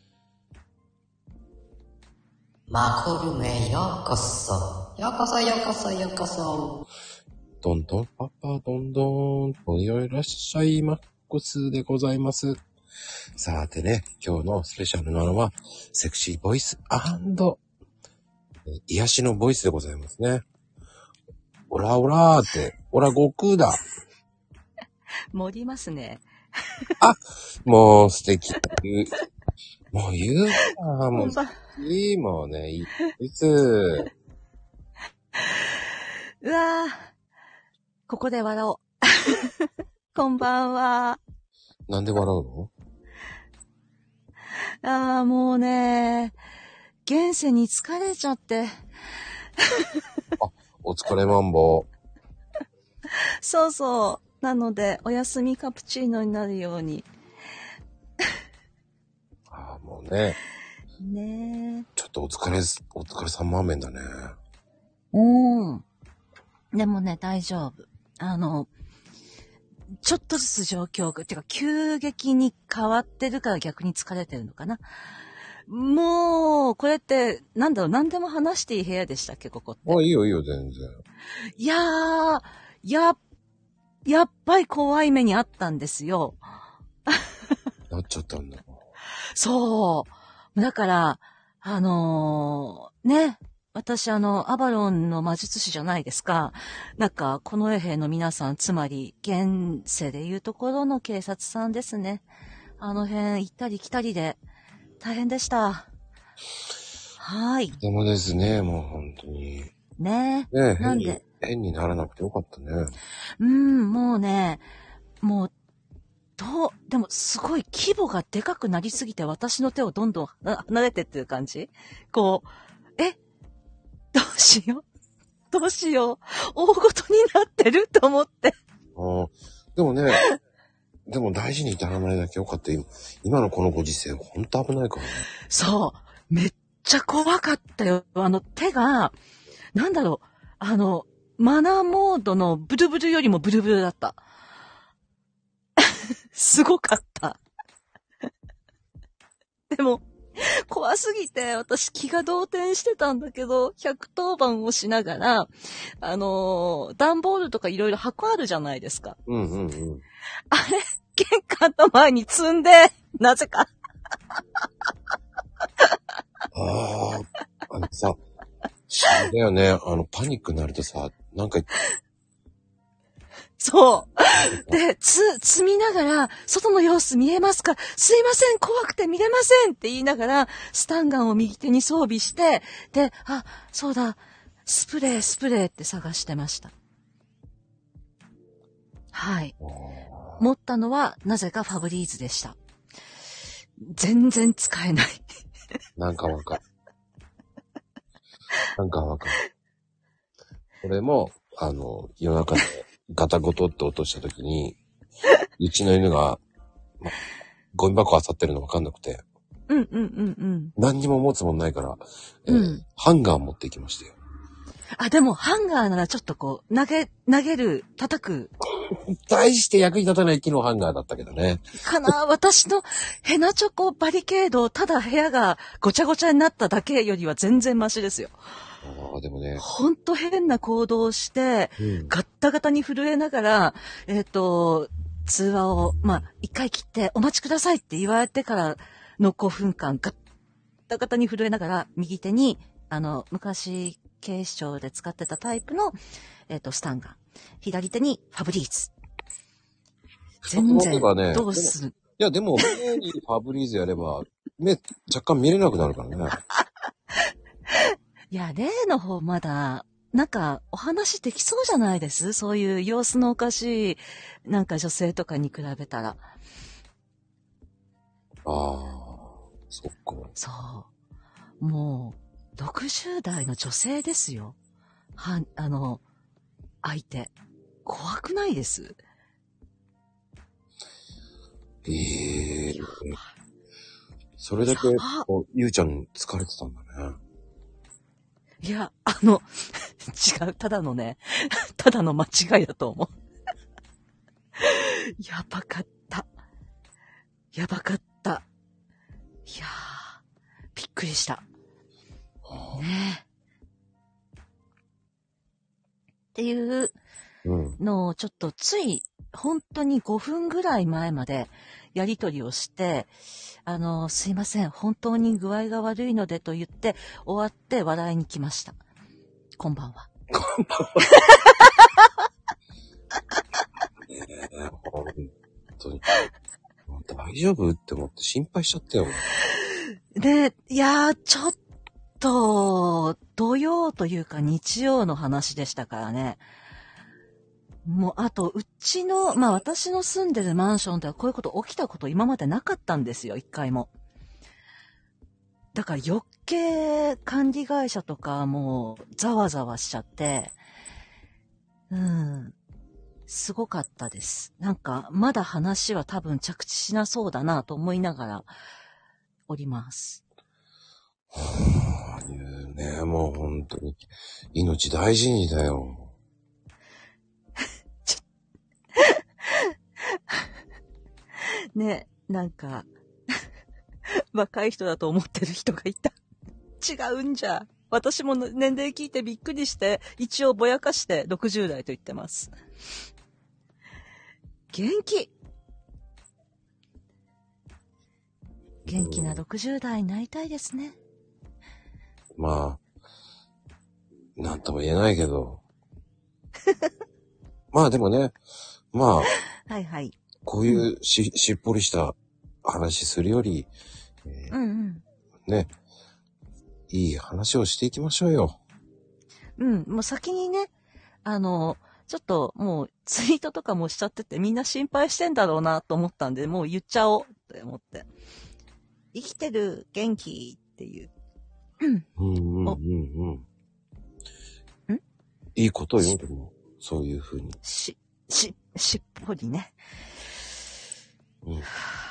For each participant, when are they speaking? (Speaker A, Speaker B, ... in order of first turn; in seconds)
Speaker A: 2.7-6.8
Speaker B: 7.6-12.6, 13.4-17.6, 18.7-20.4, 21.7-23.8, 27.0-29.1, 29.9-34.1, 41.9-42.7, 50.4-51.9, 59.5-60.4, 62.0-64.3, 79.9-81.0, 87.9-88.7, 107.8-109.7, 110.5-112.9, 129.0-130.2, 131.1-135.2, 159.3-160.0, 166.5-168.2, 168.9-171.7, 174.5-174.8, 189.6-190.4, 196.0-196.6, 198.8-199.4, 200.8-204.8, 205.6-206.4, 207.7-209.2, 210.8-214.1, 218.9-222.1, 228.8-229.7, 231.8-232.1, 250.4-256.4, 268.4-270.3, 281.9-283.2, 284.4-287.2, 302.5-302.8, 307.4-307.8, 320.3-321.1, 324.1-326.1, 326.9-329.2, 361.3-364.0, 364.5-366.1, 388.9-389.4, 392.4-392.8, 394.4-395.6, 397.7-398.4, 398.9-399.3, 400.4-403.7, 404.2-404.5, 406.9-408.6, 422.2-423.4, 425.6-427.6
Speaker C: 25.3-26.2, 30.7-31.6, 36.4-37.1, 38.1-41.2, 44.8-46.4, 47.0-48.7, 49.6-49.9, 53.4-57.1, 61.0-61.9, 65.1-65.8, 66.7-68.7, 70.0-74.8, 75.7-80.0, 81.6-83.2, 84.1-86.4, 89.4-102.2, 102.8-104.4, 105.0-105.9, 107.2-107.8, 110.0-111.2, 113.4-114.7, 115.2-115.5, 116.4-122.5, 124.1-124.8, 125.5-128.6, 135.5-139.2, 139.8-144.2, 145.8-147.4, 149.7-159.2, 160.5-163.7, 173.6-186.7, 189.1-189.6, 190.4-192.6, 193.8-195.2, 209.7-210.7, 212.5-212.8, 215.0-218.5, 221.8-228.3, 229.6-240.2, 240.9-246.0, 246.5-248.9, 250.5-252.0, 257.7-266.2, 270.4-270.9, 271.6-274.6, 275.2-276.0, 276.8-277.3, 277.9-279.0, 282.8-283.2, 284.7-285.3, 288.6-293.1, 294.6-296.3, 297.5-298.5, 299.5-300.1, 300.8-301.4, 302.7-303.2, 306.3-307.0, 307.8-313.1, 313.6-318.8, 319.6-320.1, 321.1-322.1, 329.5-331.6, 332.2-336.4, 337.9-343.9, 345.8-350.6, 351.9-352.6, 353.3-358.5, 359.5-360.2, 369.0-369.7, 371.8-372.9, 374.2-376.1, 376.8-382.5, 384.7-385.3, 388.9-391.0, 399.7-400.9, 404.5-405.0, 409.6-410.7, 411.2-418.1, 419.1-421.1, 421.8-422.1, 427.6-429.7